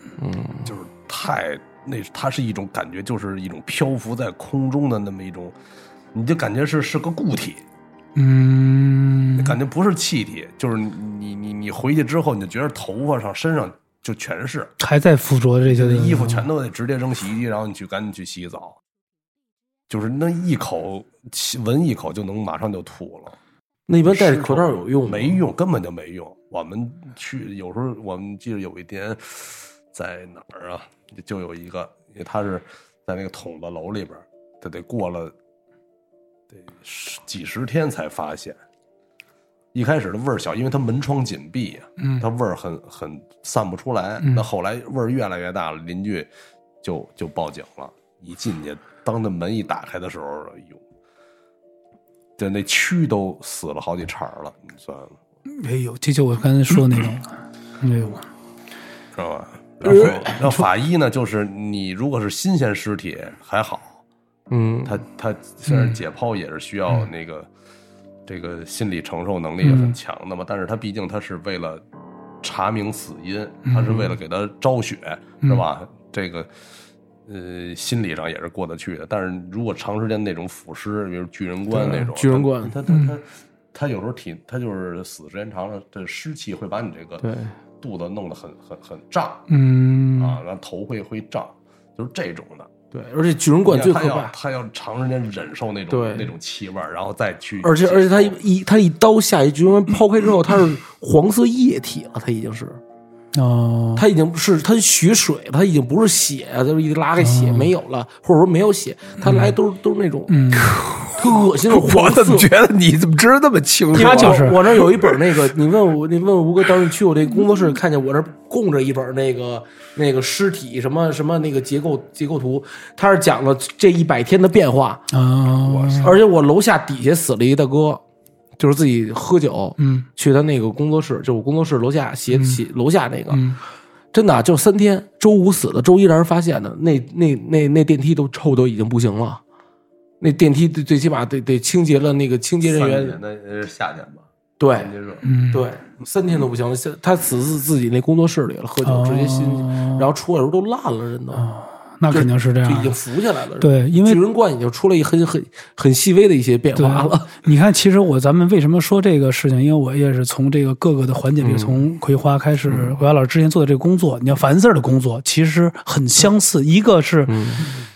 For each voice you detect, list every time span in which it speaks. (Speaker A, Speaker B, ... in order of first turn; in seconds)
Speaker A: 0.2-0.6, 23.9-25.4, 59.8-60.4, 64.5-64.9, 81.7-82.7, 87.2-87.5, 92.9-94.3, 95.9-96.3, 97.6-102.8, 104.0-110.4, 111.1-112.5, 113.9-125.0, 126.0-128.0, 128.6-133.4, 134.1-139.4, 140.2-143.2, 144.6-144.9, 145.5-151.4, 152.1-157.3, 161.4-161.8, 162.7-162.9, 167.3-167.7
Speaker B: 0.6-5.5, 6.1-7.6, 9.4-14.7, 15.7-18.8, 19.9-23.4, 24.0-35.3, 36.5-38.6, 39.7-46.3, 46.8-50.8, 52.4-55.1, 59.1-64.0, 64.8-67.5, 68.3-71.8, 72.4-76.5, 77.3-87.3, 87.8-89.5, 90.2-92.7, 93.7-98.4, 142.6-145.2
Speaker C: 8.2-9.5, 14.8-16.5, 55.6-58.2, 65.7-66.0, 69.6-70.0, 73.7-74.0, 82.9-83.1, 89.5-90.4, 103.3-104.0, 107.2-107.7, 109.2-109.5, 110.3-110.8, 113.9-114.6, 125.1-126.2, 129.8-130.1, 132.3-132.6, 133.3-133.6, 145.2-145.7, 148.8-150.1, 151.3-153.0, 153.6-154.2, 156.7-167.4
Speaker D: 110.6-114.8